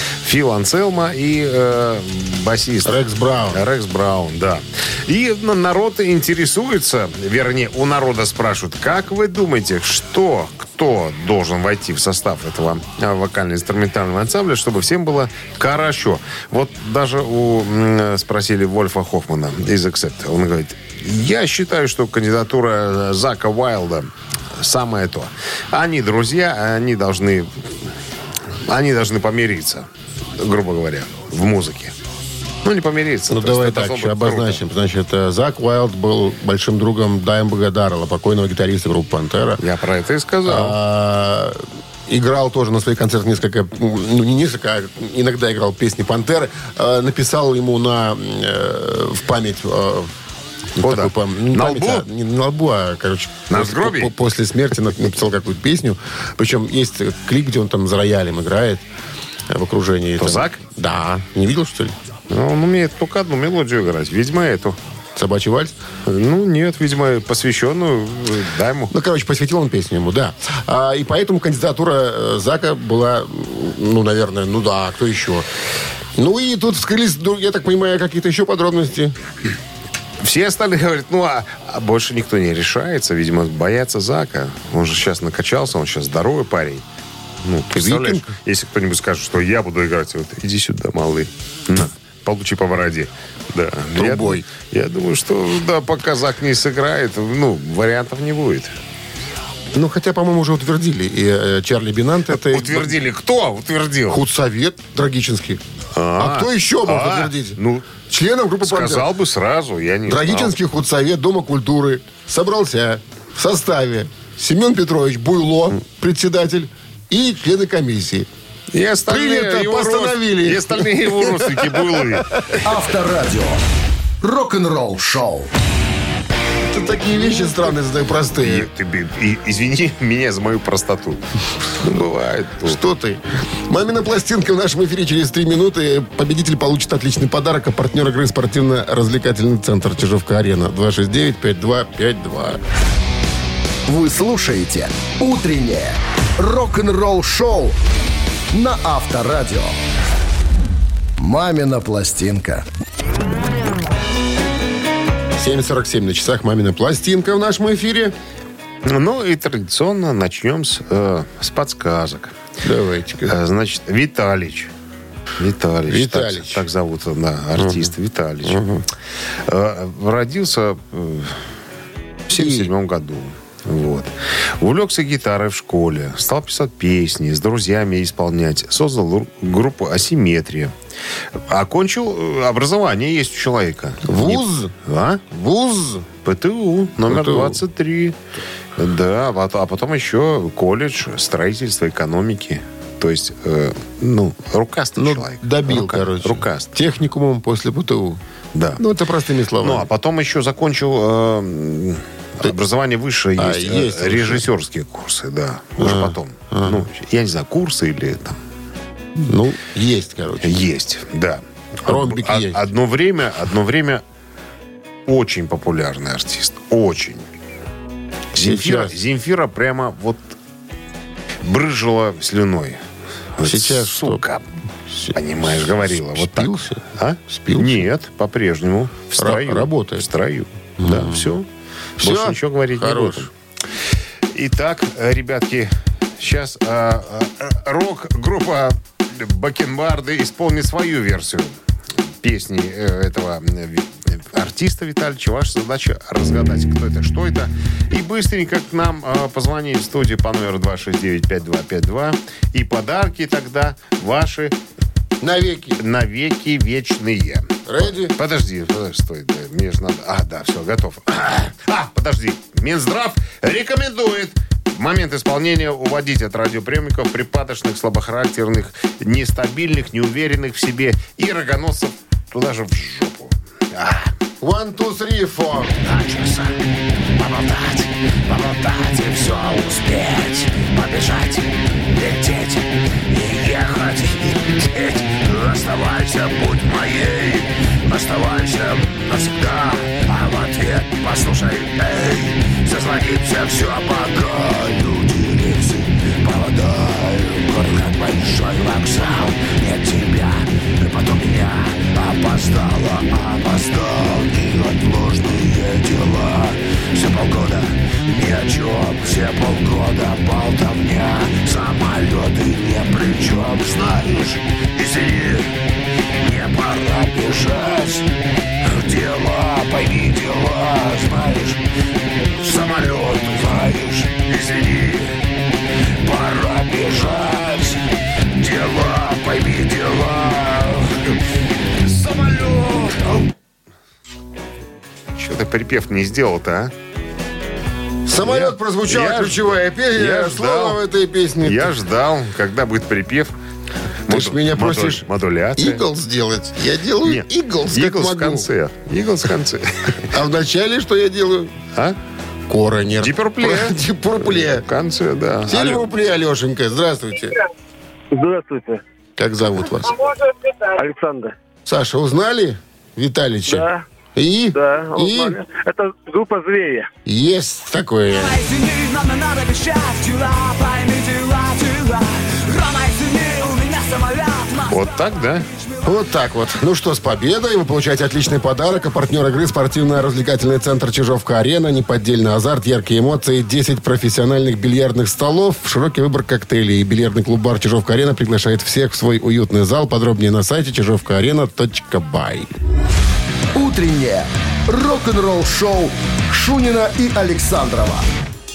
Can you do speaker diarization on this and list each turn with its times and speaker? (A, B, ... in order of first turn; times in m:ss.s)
0:00.2-0:27.7 A
0:02.8-0:03.6 B
0:28.7-0:31.9 A
0:32.6-0:34.6 A
0:33.3-0:39.6 B
0:39.6-0:40.8 A
0:40.5-0:50.1 B
0:50.8-0:52.0 A
0:50.8-0:58.8 B
0:53.5-0:54.1 A
0:59.5-1:02.0 B
1:00.2-1:00.6 A
1:02.3-1:04.8 A
1:05.2-1:05.8 B
1:06.0-1:08.9 A
1:08.9-1:15.5 B
1:16.2-1:19.2 B
1:20.2-1:26.8 A
1:27.4-1:38.7 A
1:27.7-1:28.3 B
1:34.0-1:34.5 B
1:39.7-1:43.0 B
1:42.3-1:44.2 A
1:44.1-1:45.6 B
1:46.0-1:48.0 A
1:46.2-1:49.1 B
1:48.6-1:50.6 A
1:50.1-1:58.3 B
1:58.7-2:02.3 A
1:59.1-2:02.6 B
2:02.6-2:03.6 C
2:04.2-2:05.5 C
2:06.7-2:08.7 B
2:08.4-2:11.2 A
2:11.8-2:12.8 A
2:12.6-2:22.6 B
2:23.9-2:27.8 C
2:28.5-2:29.8 C
2:31.2-2:32.6 C
2:35.4-2:38.2 B
2:38.8-2:42.4 A
2:42.6-2:43.4 B
2:43.2-2:44.7 A
2:45.4-2:48.6 A
2:45.9-2:46.6 B
2:47.6-2:47.9 B
2:48.4-2:48.8 B
2:49.4-2:51.4 A
2:52.3-3:00.7 A
2:52.3-2:52.7 B
3:01.5-3:05.2 A
3:04.1-3:04.7 B
3:05.3-3:06.1 B
3:06.2-3:08.2 A
3:07.1-3:07.6 B
3:08.8-3:16.7 A
3:15.0-3:18.2 B
3:18.5-3:18.8 A
3:18.8-3:19.9 B
3:19.6-3:28.4 A
3:23.4-3:24.4 B
3:25.8-3:26.9 B
3:29.2-3:30.6 B
3:30.4-3:34.0 A
3:31.9-3:32.7 B
3:35.1-3:37.3 A
3:38.3-3:40.4 A
3:38.4-3:39.0 B
3:41.4-3:42.8 A
3:43.4-3:44.4 A
3:43.4-3:44.2 B
3:44.9-3:47.9 B
3:45.1-3:51.5 A
3:49.2-3:50.1 B
3:50.8-3:51.4 B
3:52.0-3:53.3 A
3:52.0-3:53.3 B
3:54.3-4:01.6 A
4:02.2-4:14.6 A
4:15.2-4:15.8 B
4:15.8-4:34.1 A
4:17.7-4:18.2 B
4:34.4-4:35.8 B
4:35.8-4:36.6 D
4:37.2-5:15.5 D
5:16.2-5:18.1 D
5:18.6-5:21.6 D
5:22.4-5:25.2 D
5:26.0-5:31.0 D
5:31.8-5:33.3 D
5:35.2-5:36.7 A
5:38.1-5:41.8 B
5:38.2-5:39.4 A
5:39.9-5:40.8 A
5:41.4-5:43.3 A
5:44.1-5:45.8 A
5:44.1-5:45.0 B
5:45.6-5:48.5 B
5:47.0-5:50.1 A
5:50.1-5:51.6 B
5:52.5-5:54.7 B
5:53.0-5:55.9 A
5:55.5-5:57.4 B
5:58.1-5:58.8 E
5:59.2-6:00.0 B
6:00.8-6:01.4 E
6:01.6-6:05.4 B
6:03.5-6:03.8 E
6:04.5-6:06.9 E
6:07.1-6:08.4 B
6:08.3-6:14.8 F
6:14.7-6:15.5 A
6:15.8-6:32.5 B
6:33.5-6:38.1 C